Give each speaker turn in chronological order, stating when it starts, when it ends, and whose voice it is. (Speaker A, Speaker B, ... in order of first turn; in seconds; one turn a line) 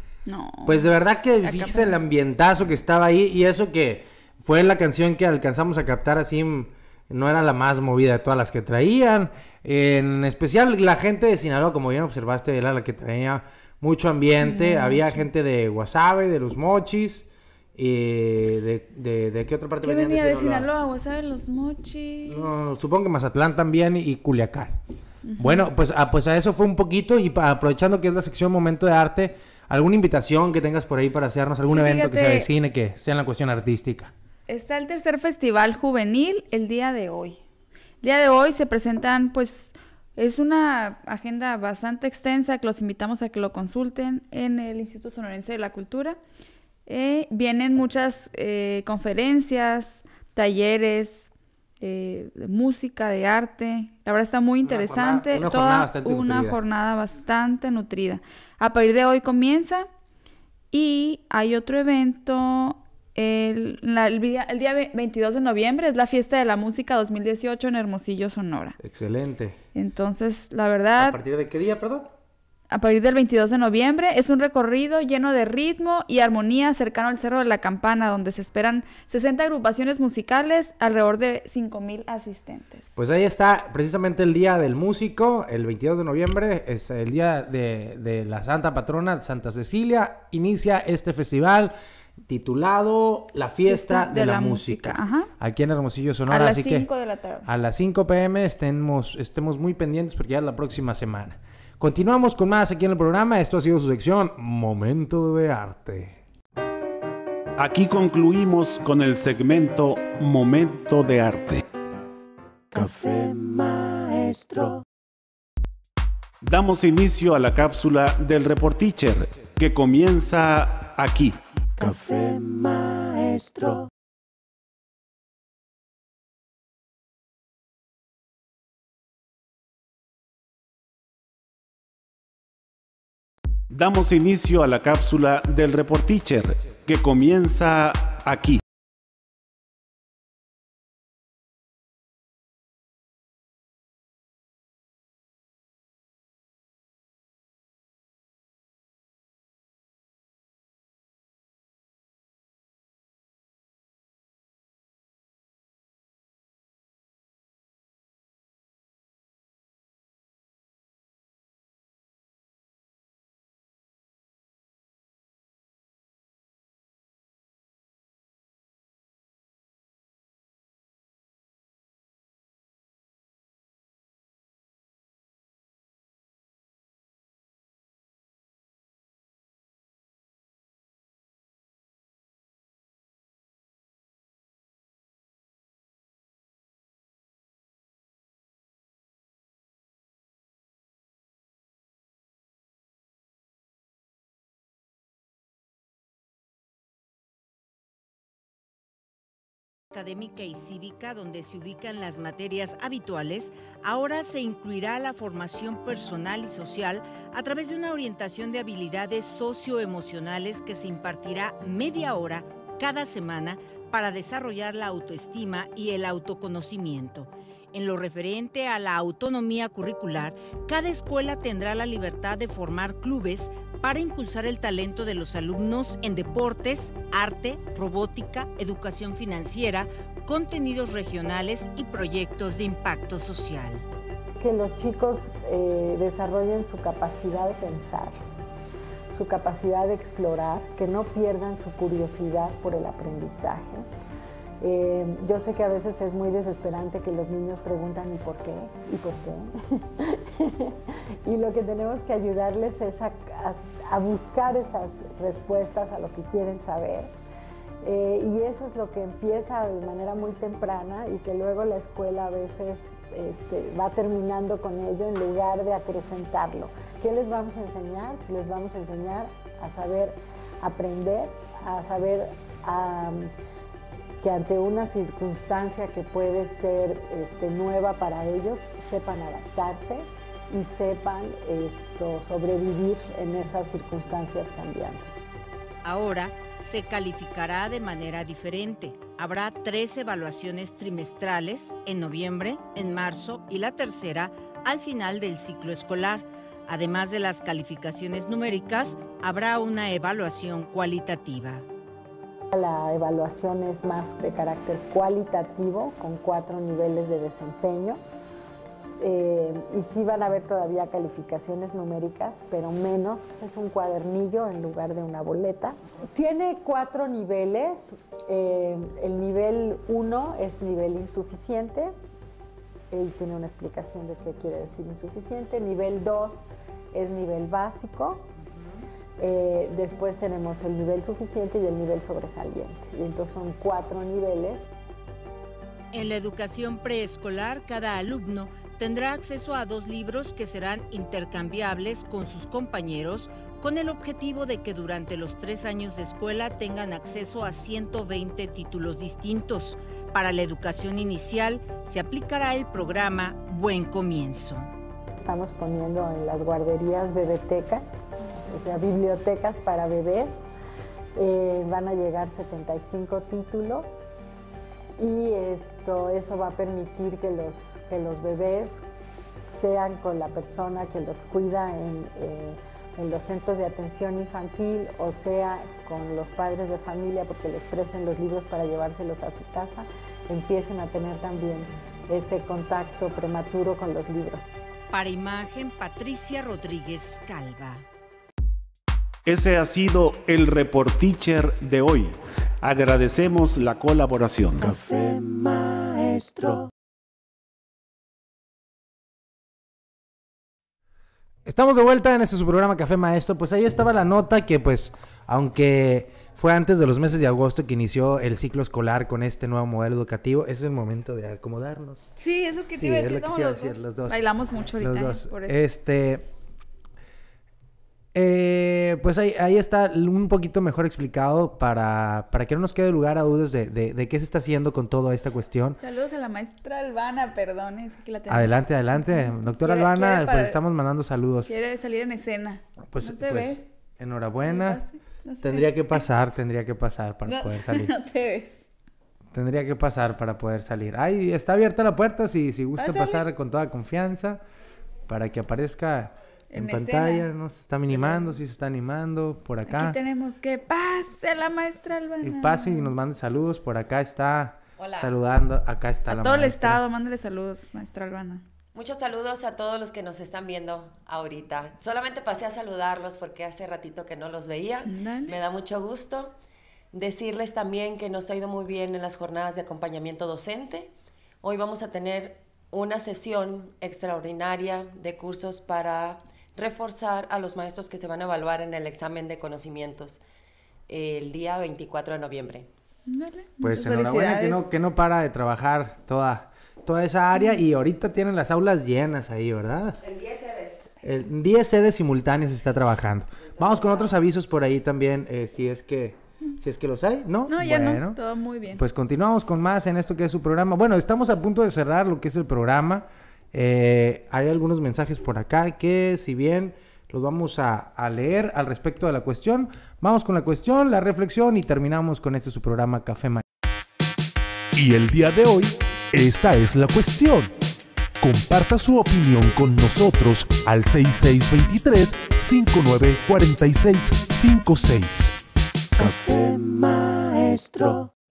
Speaker A: 0.3-2.0
Speaker B: 0.7-20.7
Speaker A: 14.4-15.2
Speaker A: 19.8-22.8
Speaker B: 22.3-24.8
Speaker A: 25.3-25.7
Speaker B: 25.4-34.1
Speaker A: 31.7-32.5
Speaker A: 34.5-37.4
Speaker A: 38.0-46.2
Speaker A: 46.9-51.3
Speaker A: 51.8-59.9
Speaker B: 54.6-56.6
Speaker A: 60.7-68.8
Speaker B: 68.8-69.6
Speaker A: 69.8-71.2
Speaker B: 71.0-72.1
Speaker A: 72.7-82.9
Speaker B: 83.0-91.7
Speaker B: 92.3-96.9
Speaker A: 93.7-95.3
Speaker A: 96.3-97.5
Speaker B: 97.5-106.2
Speaker C: 107.6-111.7
Speaker D: 112.7-114.8
Speaker C: 116.4-121.4
Speaker D: 121.8-123.9
Speaker C: 133.7-138.6
Speaker E: 199.9-233.8
Speaker F: 234.4-238.2
Speaker F: 239.1-243.9
Speaker F: 244.6-257.1
Speaker F: 257.8-273.3
Speaker F: 274.2-285.2
Speaker E: 285.8-301.6
Speaker F: 302.5-308.0
Speaker F: 309.0-321.9
Speaker F: 322.9-328.3
Speaker F: 329.2-334.6
Speaker E: 335.9-354.7
Speaker F: 355.2-360.4
Speaker F: 361.2-364.1
Speaker F: 365.0-368.9
Speaker F: 369.5-384.4
Speaker E: 384.9-387.9
Speaker C: 389.3-394.7
Speaker D: 394.6-396.7
Speaker B: 401.5-412.1
Speaker A: 412.2-415.6
Speaker B: 412.7-416.3
Speaker B: 418.1-425.8
Speaker A: 425.8-430.6
Speaker B: 428.3-431.6
Speaker A: 431.5-433.7
Speaker B: 432.9-434.8
Speaker A: 434.4-436.0
Speaker B: 435.4-437.9
Speaker A: 437.3-438.6
Speaker B: 439.3-444.4
Speaker A: 442.8-443.2
Speaker B: 445.1-450.0
Speaker A: 446.5-447.3
Speaker A: 447.9-448.4
Speaker A: 449.7-452.9
Speaker B: 452.2-456.8
Speaker G: 454.8-455.1
Speaker A: 456.1-458.4
Speaker G: 458.7-466.3
Speaker A: 464.9-465.4
Speaker G: 466.9-480.2
Speaker G: 480.9-482.7
Speaker A: 483.1-484.7
Speaker B: 483.6-490.0
Speaker G: 490.1-490.8
Speaker B: 491.0-498.2
Speaker A: 497.5-498.8
Speaker B: 498.8-513.4
Speaker H: 514.7-517.5
Speaker H: 518.2-525.3
Speaker D: 526.0-528.1